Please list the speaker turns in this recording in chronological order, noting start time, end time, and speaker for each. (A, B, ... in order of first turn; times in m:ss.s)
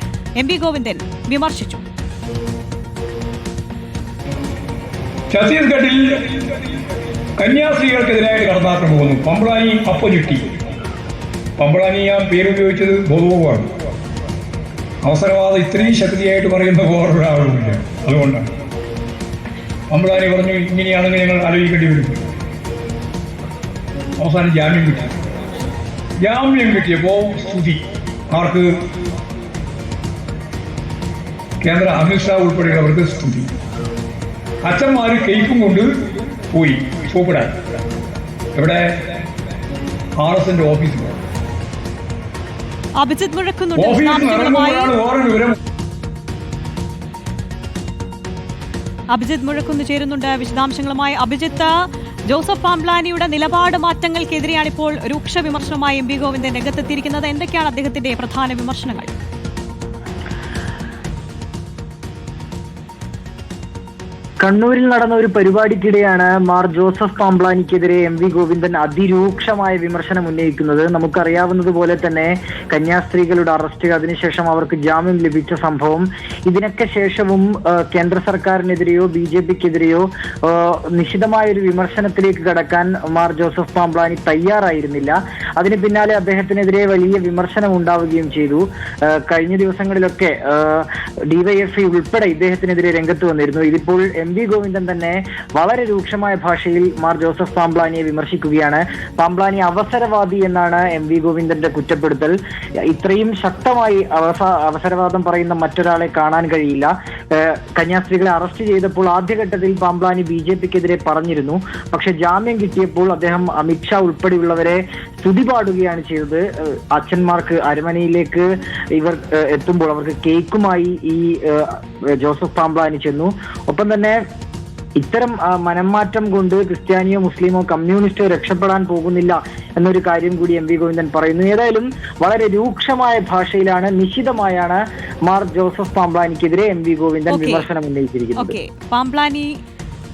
0:00.4-0:01.8 A
0:05.3-0:06.5 B
0:07.4-0:10.5 B
0:11.6-0:13.7 B
0:15.0-0:18.5 B
0:19.9-0:22.3 B
0:24.2-0:25.1 B
0:26.2-0:28.7 B
0:31.6-0:33.5 B
0:34.6-0:35.9 B
0:36.5-0:37.5 B
0:38.5-0:39.0 B
0:40.2-0:41.2 B
0:43.0-0:44.9 A
0:43.8-0:45.5 B
0:49.1-0:51.7 A
0:52.3-0:59.1 A
1:04.4-1:42.3 C
1:42.8-2:04.2 C
2:05.0-2:18.6 C
2:17.3-2:17.6 A
2:18.4-2:19.5 A